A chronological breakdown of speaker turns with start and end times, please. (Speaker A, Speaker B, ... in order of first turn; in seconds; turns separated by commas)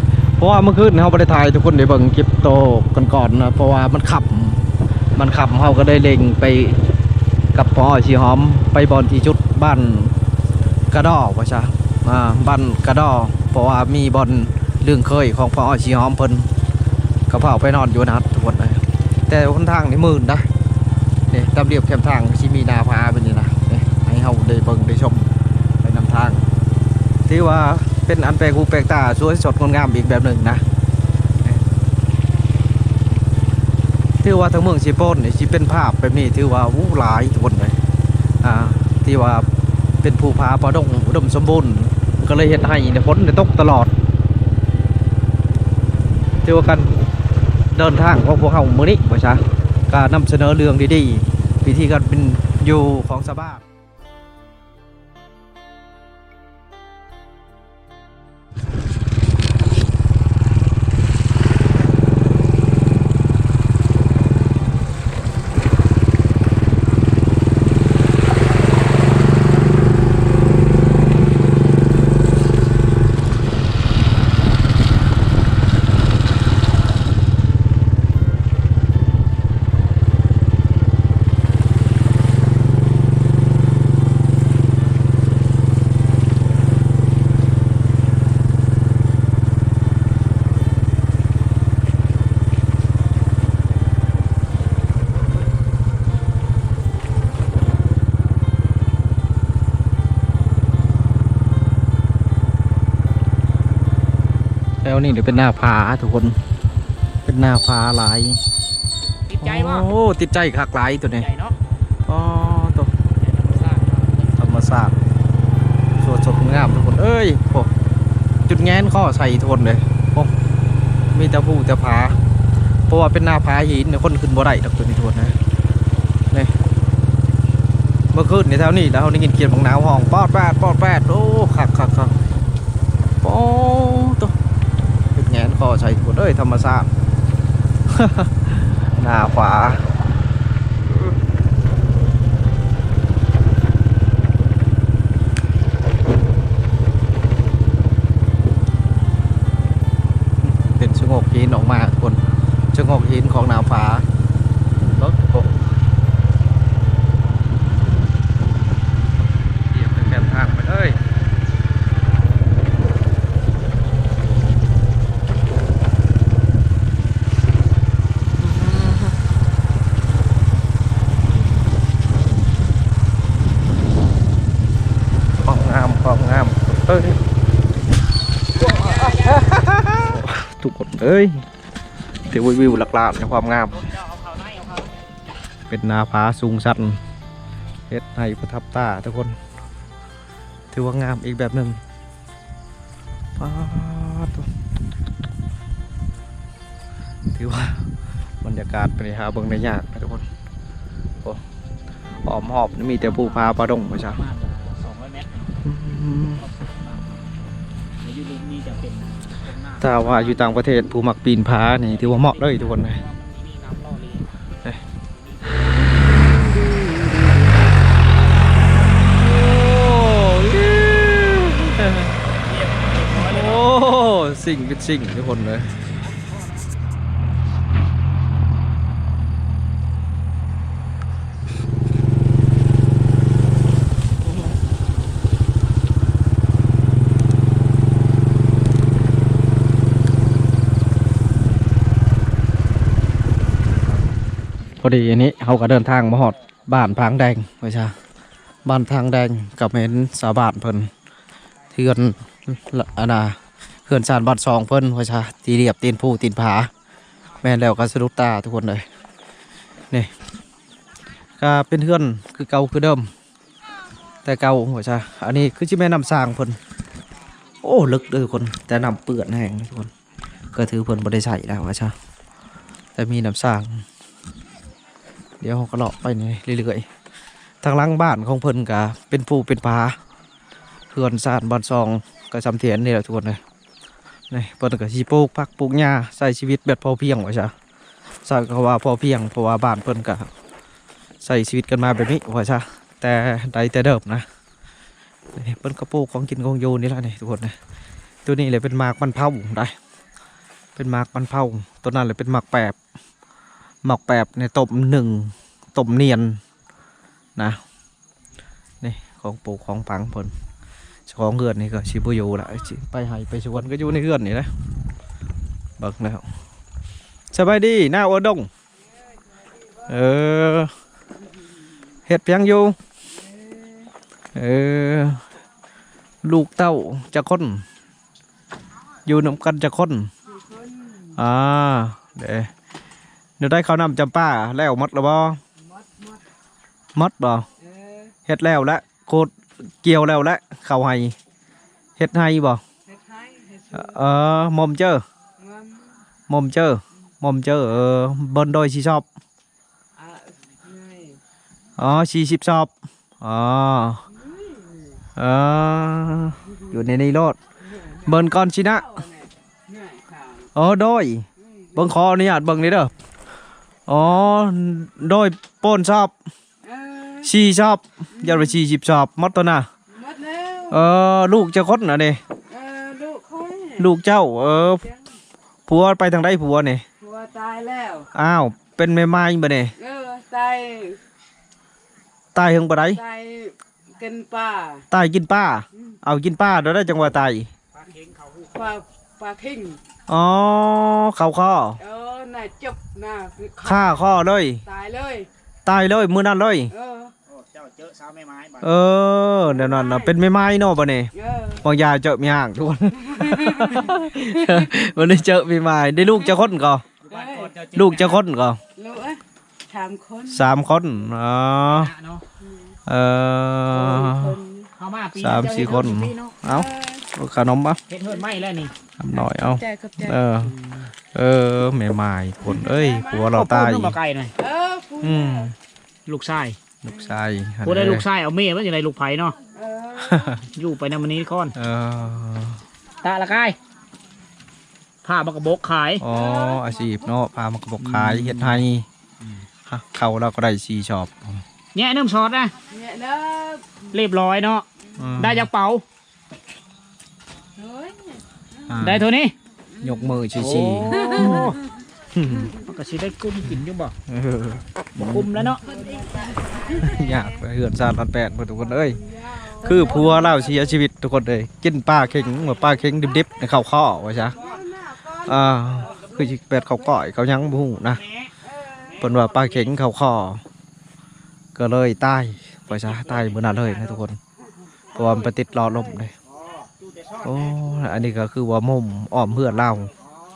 Speaker A: 0.4-6.8, Speaker A: 7.5-10.2, Speaker A: 10.9-16.5, Speaker A: 17.3-20.5, Speaker A: 21.3-25.3, Speaker A: 25.8-26.4, Speaker A: 27.2-30.6, Speaker A: 34.2-37.8, Speaker A: 38.4-39.5, Speaker A: 40.0-43.9, Speaker A: 46.4-47.0, Speaker A: 47.7-53.6, Speaker A: 104.8-106.4, Speaker A: 107.2-108.4, Speaker B: 109.3-109.9, Speaker A: 109.4-111.2, Speaker B: 111.2-111.6, Speaker A: 112.1-112.9, Speaker B: 113.2-114.6, Speaker A: 114.4-115.0, Speaker A: 116.0-117.7, Speaker A: 118.5-120.3, Speaker A: 121.1-122.2, Speaker A: 122.9-125.3, Speaker A: 128.1-132.2, Speaker A: 133.2-134.3, Speaker A: 135.1-136.9, Speaker A: 137.9-139.8, Speaker A: 150.4-152.2, Speaker A: 152.7-154.0, Speaker A: 154.9-155.5, Speaker A: 159.7-161.0, Speaker A: 168.4-169.2, Speaker A: 175.4-177.2, Speaker B: 178.6-179.9, Speaker A: 178.6-181.4, Speaker A: 182.3-183.8, Speaker B: 183.6-184.9, Speaker A: 185.7-187.0, Speaker A: 187.9-189.3, Speaker A: 190.7-191.8, Speaker A: 193.4-194.5, Speaker A: 197.3-197.8, Speaker A: 198.4-200.2, Speaker A: 202.2-204.2, Speaker B: 203.0-207.4, Speaker A: 205.6-206.4, Speaker B: 208.0-210.6, Speaker A: 209.8-213.0, Speaker B: 211.8-214.3, Speaker B: 215.1-215.9, Speaker A: 219.1-222.1, Speaker B: 222.3-223.7, Speaker A: 223.2-225.7, Speaker A: 234.2-234.5, Speaker A: 244.8-247.9, Speaker A: 248.6-250.9, Speaker A: 251.7-256.7, Speaker A: 257.4-258.8, Speaker A: 261.4-263.1, Speaker A: 264.2-266.6, Speaker A: 267.6-269.9, Speaker A: 270.5-271.9, Speaker A: 272.9-273.8, Speaker A: 275.4-276.9, Speaker A: 277.6-280.0, Speaker A: 280.9-283.4, Speaker A: 284.3-287.5, Speaker A: 288.2-290.3, Speaker A: 291.2-294.2, Speaker A: 295.3-297.5, Speaker A: 298.2-299.7, Speaker A: 300.8-302.8, Speaker A: 303.8-306.4, Speaker A: 308.8-310.3, Speaker A: 311.1-314.5, Speaker A: 315.8-316.2, Speaker A: 317.3-318.5, Speaker A: 319.9-320.7, Speaker A: 322.1-322.8, Speaker A: 324.3-325.2, Speaker A: 326.2-327.6, Speaker A: 329.0-330.1, Speaker C: 330.3-331.1, Speaker A: 331.2-332.5, Speaker A: 333.4-335.4, Speaker C: 335.6-336.2, Speaker A: 336.9-337.5, Speaker C: 337.6-338.1, Speaker A: 338.2-341.1, Speaker A: 342.0-342.6, Speaker C: 342.9-344.0, Speaker A: 343.7-345.0, Speaker C: 345.4-345.9, Speaker A: 346.3-349.0, Speaker C: 350.0-351.2, Speaker A: 351.8-354.0, Speaker C: 354.2-354.8, Speaker A: 355.2-357.4, Speaker C: 357.8-358.1, Speaker A: 358.0-359.0, Speaker C: 358.7-360.5, Speaker A: 360.5-362.9, Speaker C: 361.4-361.8, Speaker A: 363.9-366.1, Speaker C: 366.6-367.3, Speaker A: 367.2-369.7, Speaker C: 368.2-368.5, Speaker C: 369.9-370.8, Speaker A: 370.7-372.2, Speaker C: 372.5-373.9, Speaker A: 373.8-374.8, Speaker A: 375.7-376.8, Speaker C: 377.0-378.1, Speaker A: 378.1-379.7, Speaker C: 379.8-381.0, Speaker A: 382.3-383.0, Speaker C: 382.9-384.8, Speaker A: 384.9-387.5, Speaker B: 387.7-388.7, Speaker C: 388.5-389.8, Speaker A: 390.1-391.8, Speaker C: 391.8-394.0, Speaker A: 393.6-394.6, Speaker C: 394.6-395.3, Speaker A: 395.6-396.7, Speaker C: 396.7-397.1, Speaker B: 397.3-398.8, Speaker A: 398.6-401.1, Speaker C: 399.5-400.1, Speaker C: 401.1-401.6, Speaker A: 401.6-406.8, Speaker C: 403.0-404.7, Speaker B: 407.0-408.2, Speaker C: 407.1-407.5, Speaker A: 407.7-408.6, Speaker C: 408.8-410.5, Speaker A: 410.3-411.9, Speaker B: 411.7-412.2, Speaker C: 412.4-412.7, Speaker A: 412.9-414.4, Speaker C: 413.7-414.7, Speaker B: 414.8-416.4, Speaker A: 415.2-417.8, Speaker C: 416.4-417.0, Speaker B: 417.9-418.7, Speaker A: 419.0-420.5, Speaker C: 419.1-420.2, Speaker B: 420.4-420.9, Speaker A: 421.1-423.9, Speaker C: 422.5-423.3, Speaker B: 423.2-424.3, Speaker C: 424.4-425.5, Speaker A: 425.0-425.5, Speaker B: 426.1-426.6, Speaker A: 426.8-428.0, Speaker B: 427.6-429.4, Speaker C: 429.5-430.3, Speaker A: 430.0-430.4, Speaker B: 430.5-431.5, Speaker A: 431.6-432.6, Speaker B: 433.0-433.6, Speaker B: 435.0-436.1, Speaker A: 436.0-438.9, Speaker C: 436.1-436.7, Speaker B: 437.8-438.6, Speaker B: 439.2-439.4, Speaker A: 439.7-441.4, Speaker B: 441.7-442.5, Speaker C: 442.7-443.8, Speaker B: 443.9-444.6, Speaker A: 445.0-445.5, Speaker B: 445.2-445.8, Speaker C: 447.6-448.7, Speaker A: 448.7-449.1, Speaker B: 448.8-449.3, Speaker C: 449.8-450.1, Speaker A: 449.8-451.5, Speaker B: 450.4-451.6, Speaker A: 452.1-452.5, Speaker B: 452.6-453.9, Speaker A: 454.1-455.5, Speaker B: 455.0-455.6, Speaker C: 455.6-457.2, Speaker A: 456.7-459.0, Speaker C: 458.9-460.6, Speaker A: 459.6-464.4, Speaker C: 464.3-465.9, Speaker B: 464.3-464.6, Speaker A: 465.2-468.0, Speaker B: 465.6-466.6, Speaker B: 467.8-468.3, Speaker C: 468.4-469.0, Speaker B: 468.9-469.7, Speaker A: 469.0-470.4, Speaker A: 471.5-474.2, Speaker B: 472.7-474.0, Speaker C: 474.9-475.4, Speaker A: 474.9-476.1, Speaker B: 476.2-477.8, Speaker A: 477.2-479.9